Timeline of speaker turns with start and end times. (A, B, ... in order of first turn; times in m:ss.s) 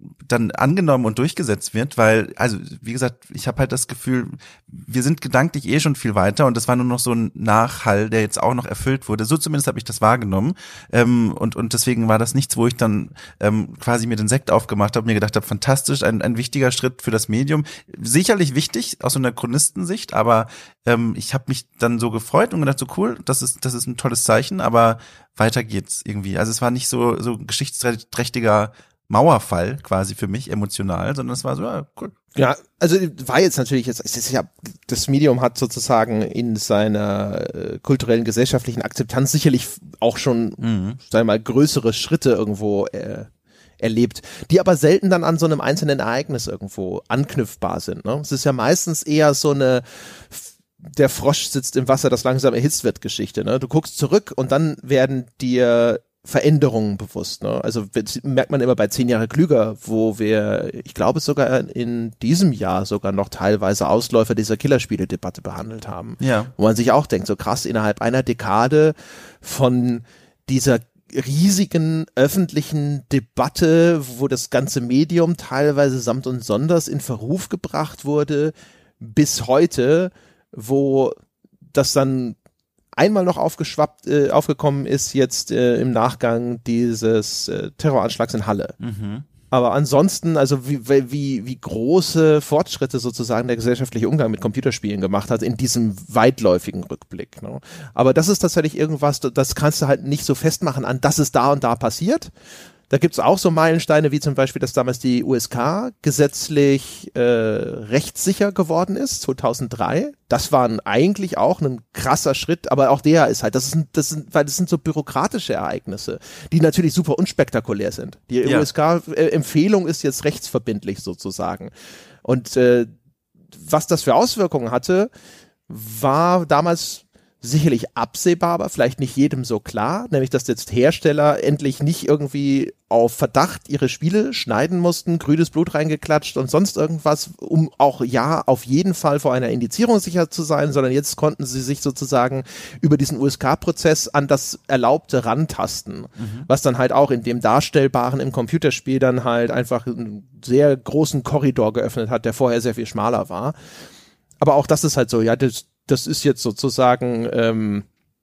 0:00.2-0:32.1 A
0:32.3-0:43.3 B
0:40.6-0:41.0 A
0:43.8-1:21.2 B
1:06.2-1:06.5 A
1:21.7-1:22.4 B
1:23.0-1:28.7 B
1:28.8-1:29.2 A
1:29.5-1:42.3 B
1:42.9-2:01.7 B
2:02.2-2:02.9 B
2:03.6-2:05.1 B
2:05.7-2:33.6 B
2:26.2-2:26.5 A
2:34.4-2:37.8 B